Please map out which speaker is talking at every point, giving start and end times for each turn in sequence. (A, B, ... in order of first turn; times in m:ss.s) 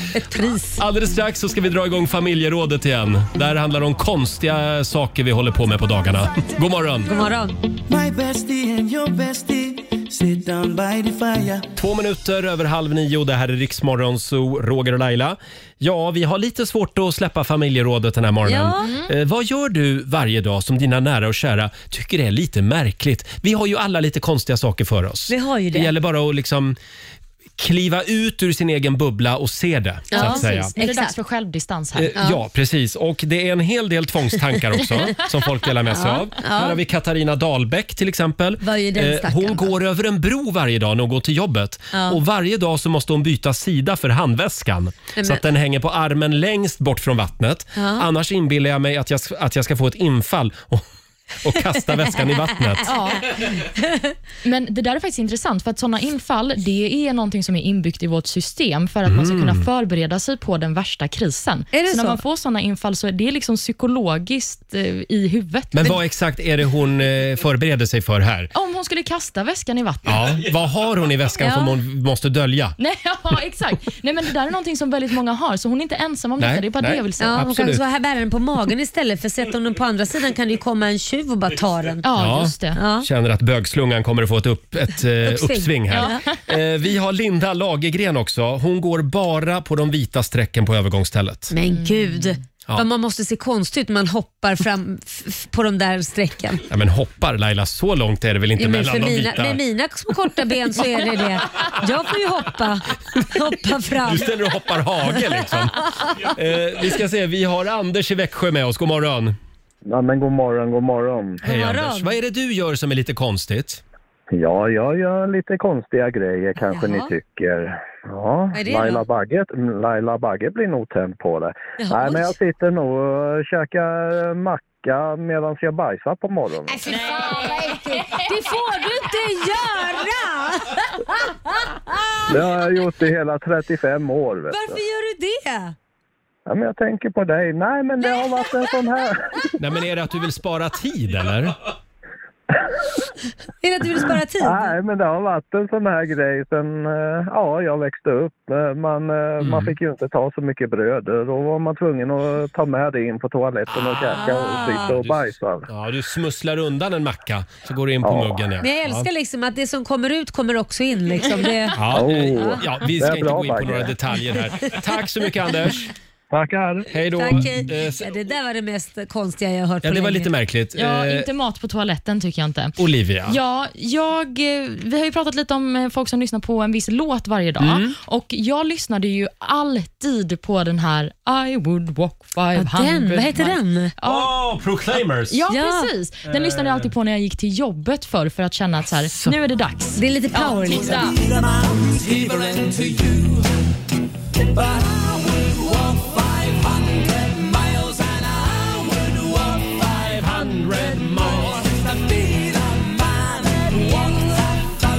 0:00.1-0:00.8 A
0:00.8-0:07.2 B
0:07.1-0:07.6 A
0:07.9-0:11.7 C
0:11.8-0:26.8 B
0:18.4-0:18.9 A
0:18.8-0:19.1 D
0:25.3-0:25.9 A
0:27.6-0:30.7 B
0:30.1-0:31.1 A
0:30.1-0:32.1 D
0:31.9-0:50.8 B
0:35.9-0:36.8 A
0:38.6-0:39.7 A
0:41.9-0:42.2 A
0:47.8-0:48.0 A
0:51.4-0:52.9 B
0:52.9-0:53.3 D
0:52.9-0:54.1 A
0:54.4-1:06.0 D
0:59.0-0:59.6 B
1:01.7-1:02.2 A
1:05.7-1:08.5 B
1:08.5-1:10.4 D
1:10.0-1:12.8 B
1:12.8-1:17.5 D
1:16.4-1:17.8 B
1:17.2-1:22.0 A
1:22.0-1:22.8 D
1:22.1-1:31.5 B
1:22.7-1:23.1 A
1:25.2-1:26.2 A
1:25.9-1:26.2 D
1:31.5-1:36.6 A
1:31.7-1:32.3 D
1:36.7-1:39.6 B
1:38.6-1:44.3 A
1:44.0-1:49.4 B
1:49.8-1:51.4 E
1:51.4-1:52.1 A
1:51.4-1:53.8 B
1:54.3-2:06.8 E
1:56.7-1:57.1 A
1:58.5-1:59.0 A
2:01.8-2:02.3 A
2:06.7-2:12.4 A
2:06.9-2:07.5 D
2:12.3-2:14.8 E
2:14.5-2:15.7 A
2:16.5-2:19.5 E
2:18.0-2:18.7 A
2:19.6-2:21.6 B
2:23.6-2:24.8 A
2:24.4-2:35.7 E
2:29.4-2:29.7 B
2:33.7-2:35.2 B
2:34.1-2:34.9 A
2:35.7-2:39.1 B
2:38.0-2:38.4 E
2:38.6-2:42.6 A
2:41.8-2:45.9 B
2:41.9-2:43.9 E
2:46.3-2:46.9 E
2:46.9-2:48.1 B
2:47.1-2:50.3 A
2:49.8-2:51.3 B
2:50.8-3:04.3 D
2:52.8-2:53.4 B
2:57.6-2:57.9 B
3:02.5-3:03.9 A
3:04.0-3:05.4 B
3:05.3-3:11.2 D
3:05.5-3:05.9 A
3:06.2-3:06.9 B
3:09.1-3:09.4 B
3:10.0-3:11.1 A
3:11.3-3:13.4 C
3:14.7-3:19.7 C
3:19.8-3:21.8 B
3:21.7-3:23.6 C